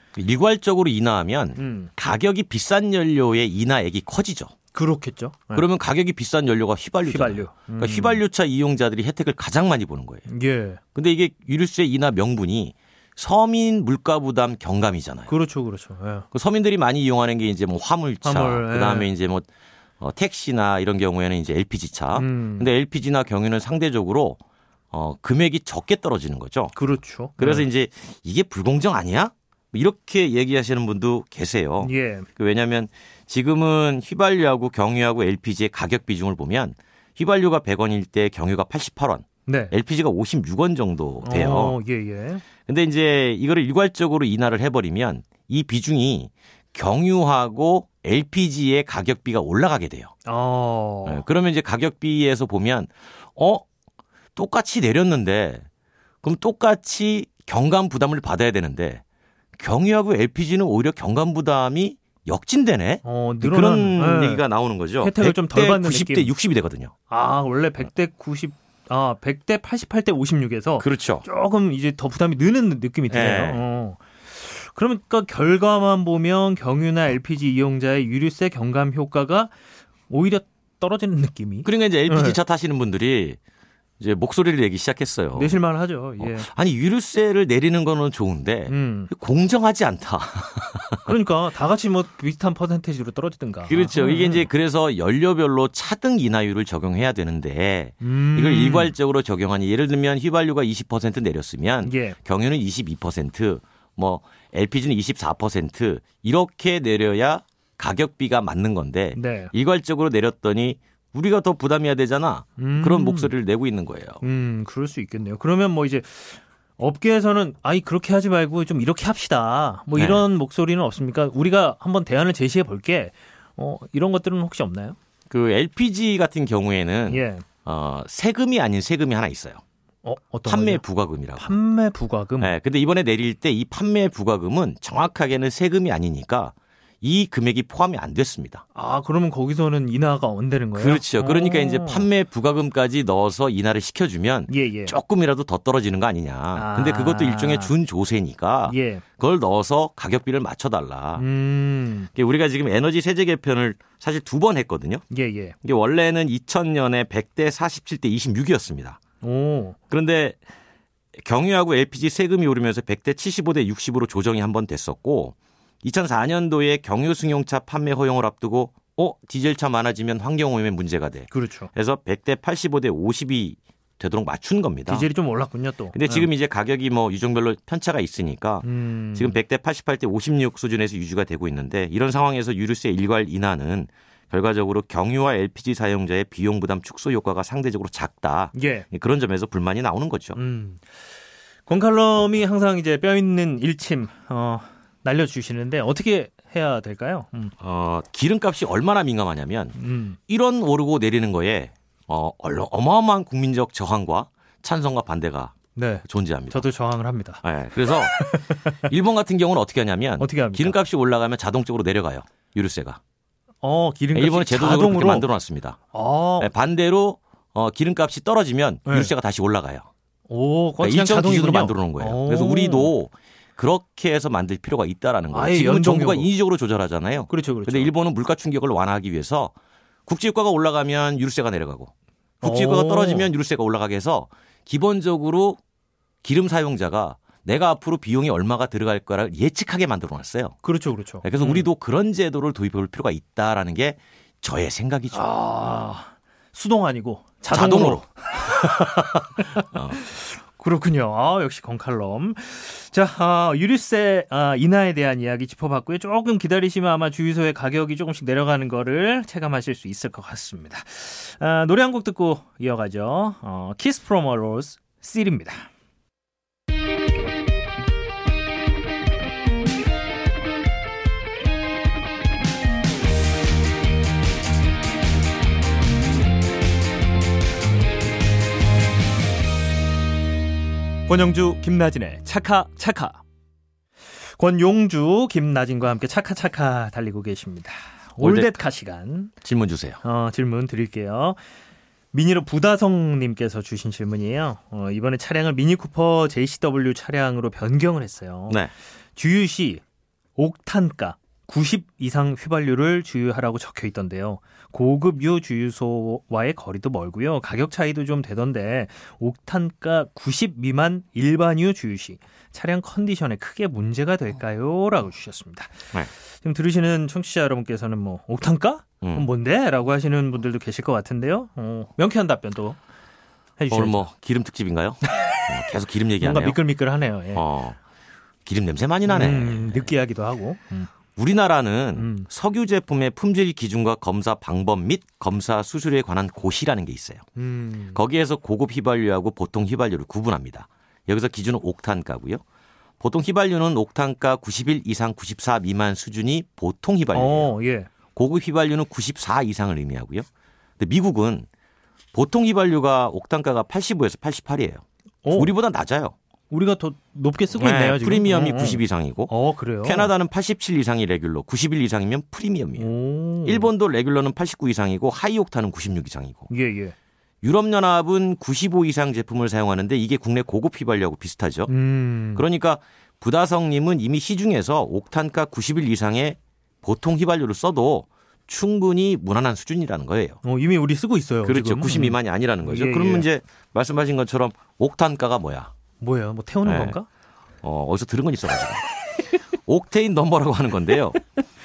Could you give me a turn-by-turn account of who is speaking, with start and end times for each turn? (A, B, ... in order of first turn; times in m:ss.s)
0:00.2-0:04.5 A
0:01.6-0:01.9 B
0:04.7-0:05.7 B
0:05.5-0:10.3 A
0:07.0-0:08.2 B
0:10.3-0:10.8 B
0:11.0-0:15.3 A
0:15.3-0:16.3 B
0:16.3-0:19.5 A
0:18.2-0:19.1 B
0:20.0-0:24.4 A
0:22.1-0:22.7 B
0:24.9-0:26.7 A
0:26.8-0:27.7 B
0:27.4-0:41.8 A
0:31.8-0:32.3 B
0:39.5-0:39.7 B
0:41.2-0:42.4 B
0:42.7-0:50.1 A
0:50.3-0:51.2 B
0:51.1-0:53.6 A
0:54.4-0:55.7 A
0:56.2-0:59.0 A
0:59.6-1:06.9 A
1:03.0-1:04.4 B
1:05.0-1:06.3 B
1:07.1-1:19.5 B
1:10.8-1:11.2 A
1:13.1-1:13.6 A
1:20.1-1:22.4 B
1:21.6-1:23.4 A
1:24.0-1:25.6 A
1:25.3-1:26.5 B
1:26.2-1:31.1 A
1:28.7-1:29.1 B
1:31.0-1:34.5 B
1:33.7-1:54.2 A
1:38.0-1:39.0 B
1:41.8-1:42.2 B
1:49.1-1:49.5 B
1:52.6-1:53.3 B
1:54.2-2:05.0 B
1:59.9-2:00.2 A
2:05.3-2:09.6 A
2:07.1-2:07.4 B
2:10.0-2:10.8 B
2:10.4-2:11.5 A
2:11.4-2:12.5 B
2:12.4-2:18.6 A
2:18.8-2:22.1 B
2:20.8-2:31.3 A
2:24.5-2:25.0 B
2:26.5-2:27.7 B
2:28.7-2:29.0 B
2:31.2-2:32.1 B
2:32.2-2:35.0 A
2:35.1-2:35.6 B
2:35.6-2:39.0 A
2:39.2-2:39.8 B
2:39.9-2:40.4 A
2:41.2-2:55.1 A
2:51.3-2:51.7 B
2:54.9-2:56.3 B
2:56.0-3:10.4 A
2:58.6-2:59.4 B
3:08.5-3:08.9 B
3:10.4-3:10.8 B
3:11.7-3:17.5 B
3:17.6-3:19.8 A
3:19.8-3:20.2 B
3:20.3-3:26.7 A
3:25.8-3:28.8 B
3:27.4-3:33.0 A
3:30.2-3:30.8 B
3:33.6-3:35.3 B
3:34.1-3:35.8 A
3:35.9-3:36.5 B
3:36.4-3:39.9 A
3:38.9-3:39.1 B
3:40.3-3:42.9 B
3:40.8-3:49.5 A
3:45.3-3:46.3 B
3:47.3-3:47.9 B
3:50.1-3:55.6 A
3:52.4-3:53.3 B
3:56.2-4:00.6 A
4:00.6-4:01.7 B
4:01.2-4:05.3 A
4:05.1-4:25.7 B
4:07.5-4:10.0 A
4:41.1-4:43.2 B
4:44.4-4:49.3 B
4:48.2-4:48.5 A
4:49.4-4:50.0 A
4:50.0-4:51.4 B
4:52.1-4:58.6 B
4:59.2-4:59.8 B
5:00.4-5:15.8 B
5:16.4-5:22.8 B
5:19.0-5:19.3 A
5:23.6-5:24.0 B
5:23.7-5:26.6 A
5:25.2-5:25.5 B
5:26.2-5:27.4 B
5:27.4-5:27.8 A
5:28.5-5:29.9 A
5:29.1-5:30.9 B
5:31.2-5:37.3 A
5:32.0-5:32.3 B
5:37.4-5:38.0 B
5:37.9-5:42.4 A
5:43.0-5:47.5 A
5:47.1-5:47.9 B
5:48.2-5:50.3 A
5:50.8-5:51.5 A
5:52.1-5:56.2 A
5:55.2-5:55.5 B
5:56.5-6:00.1 B
5:57.6-6:02.9 A
6:02.8-6:03.7 B
6:03.4-6:06.5 A
6:06.5-6:07.0 B
6:07.4-6:11.7 A
6:11.7-6:12.4 B
6:12.4-6:20.4 A
6:20.4-6:23.3 B
6:21.4-6:25.7 A
6:26.0-6:27.1 B
6:26.6-6:27.0 A
6:27.6-6:28.8 A
6:29.7-6:31.2 A